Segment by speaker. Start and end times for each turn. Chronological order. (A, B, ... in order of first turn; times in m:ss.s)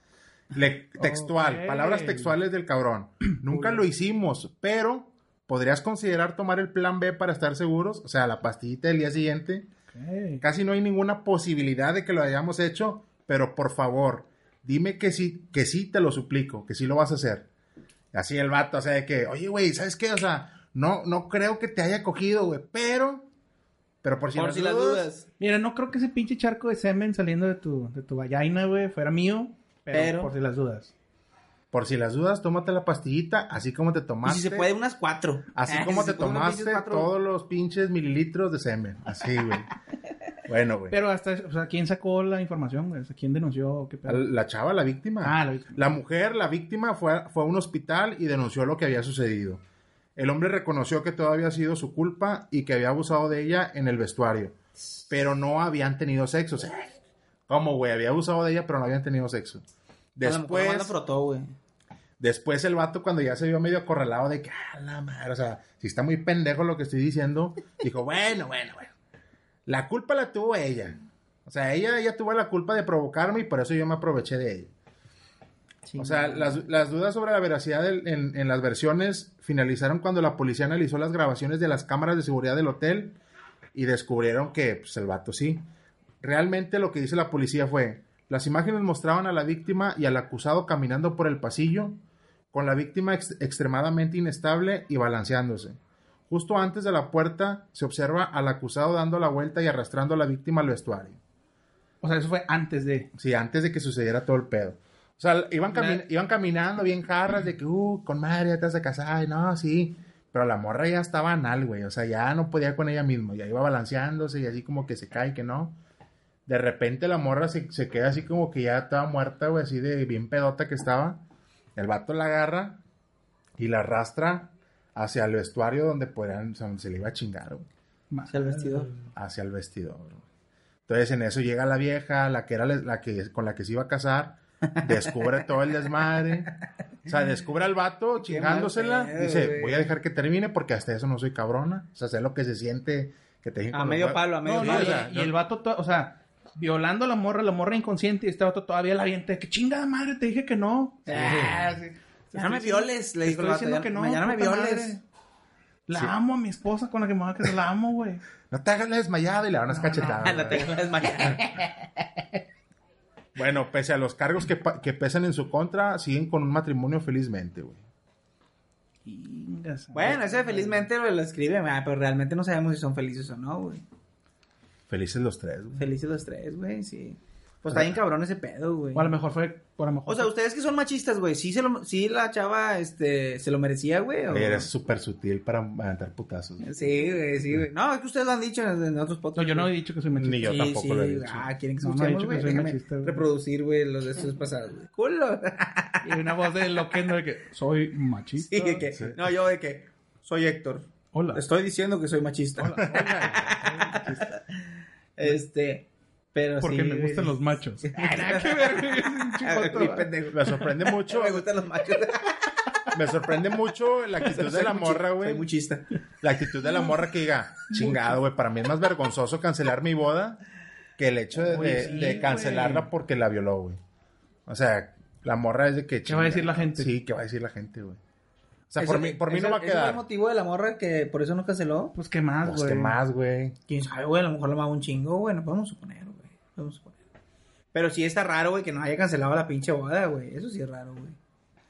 0:00.5-0:09.7 A
0:01.0-0:02.4 B
0:03.5-0:03.8 B
0:09.9-0:10.4 B
0:10.4-0:17.5 A
0:18.1-0:23.3 A
0:24.0-0:25.1 A
0:24.4-0:25.2 C
0:25.4-0:30.9 B
0:29.9-0:30.3 C
0:31.7-0:34.7 A
0:34.2-0:37.1 C
0:35.5-0:39.7 A
0:40.5-0:41.0 A
0:40.9-0:44.2 B
0:44.1-0:49.6 A
0:45.2-0:45.8 B
0:50.2-0:54.5 A
0:55.1-0:57.0 A
0:57.5-0:59.6 A
1:00.2-1:00.9 A
1:00.2-1:01.5 C
1:02.2-1:08.9 A
1:09.7-1:14.7 A
1:15.9-1:16.6 C
1:16.0-1:23.2 A
1:23.7-1:25.6 A
1:26.2-1:32.0 A
1:32.5-1:35.8 A
1:36.3-1:41.2 A
1:42.0-1:43.1 B
1:43.1-1:55.8 A
1:45.7-1:46.0 B
1:56.5-2:01.2 A
2:01.8-2:02.8 A
2:03.6-2:07.7 A
2:08.1-2:09.0 B
2:08.3-2:08.9 C
2:09.1-2:10.2 A
2:10.9-2:16.5 A
2:14.7-2:15.2 C
2:17.1-2:25.3 A
2:18.2-2:19.9 C
2:23.7-2:25.0 C
2:24.4-2:35.0 B
2:31.1-2:31.8 C
2:31.1-2:31.6 A
2:32.3-2:35.0 C
2:35.9-2:38.2 B
2:38.5-2:41.4 A
2:39.7-2:40.6 B
2:40.1-2:41.7 C
2:43.4-2:47.8 A
2:49.1-2:50.9 B
2:49.9-2:53.8 C
2:54.9-2:55.9 A
2:55.8-2:59.1 C
2:57.7-2:58.0 A
2:59.0-3:00.3 B
3:00.1-3:04.7 C
3:04.3-3:06.9 A
3:06.6-3:09.7 C
3:09.4-3:10.7 B
3:10.2-3:11.5 A
3:10.5-3:16.1 C
3:11.8-3:13.2 B
3:16.0-3:18.8 B
3:18.4-3:24.4 C
3:21.1-3:21.4 B
3:22.6-3:24.3 B
3:22.7-3:23.6 A
3:25.2-3:32.5 C
3:26.6-3:30.1 B
3:30.3-3:31.5 A
3:32.9-3:35.4 A
3:34.2-3:35.9 C
3:36.2-3:40.4 A
3:37.7-3:38.1 B
3:41.0-3:43.8 A
3:41.4-3:42.9 B
3:44.5-3:48.0 A
3:46.1-3:46.9 B
3:48.7-3:50.0 A
3:48.8-3:51.9 C
3:52.0-3:53.0 B
3:52.4-3:53.6 A
3:53.7-3:57.0 C
3:57.7-4:01.2 C